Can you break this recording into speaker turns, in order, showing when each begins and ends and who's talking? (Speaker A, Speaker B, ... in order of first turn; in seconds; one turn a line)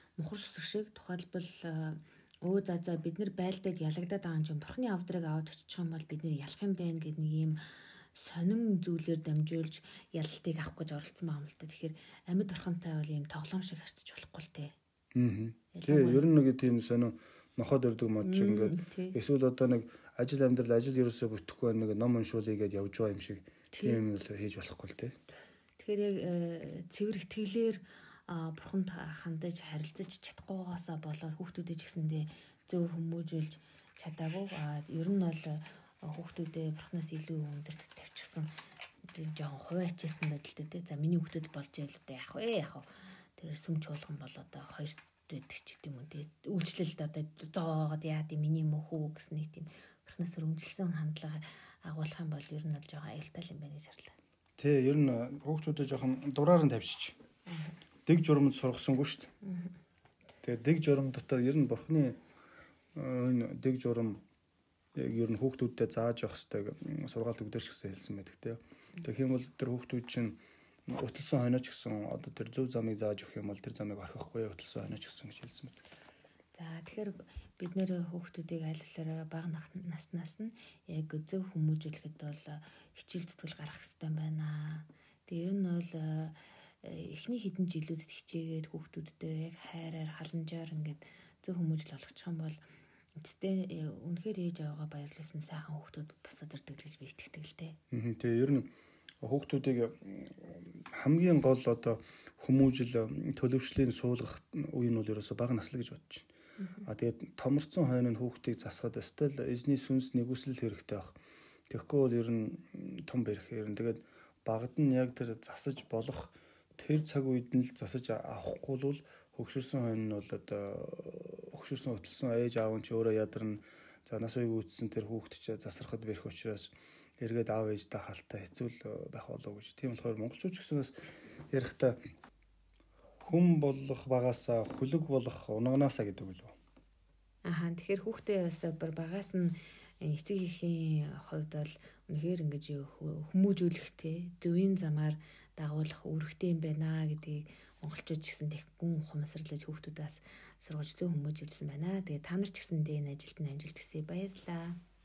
Speaker A: 0.2-14.7
Speaker B: 15.1-25.2
Speaker A: 15.7-16.2
Speaker A: 18.2-19.2
Speaker A: 23.7-24.0
Speaker A: 25.8-38.5
Speaker A: 39.1-54.1
Speaker B: 54.6-57.2
Speaker A: 57.5-57.8
Speaker B: 58.0-59.3
Speaker A: 59.4-59.8
Speaker B: 60.4-62.2
Speaker B: 62.9-64.2
Speaker B: 64.9-75.8
Speaker A: 76.5-92.6
Speaker A: 93.2-97.8
Speaker B: 97.9-106.3
Speaker A: 106.6-106.8
Speaker B: 106.8-111.1
Speaker B: 111.7-130.9
Speaker B: 131.5-132.0
Speaker B: 133.2-136.5
Speaker A: 137.4-154.8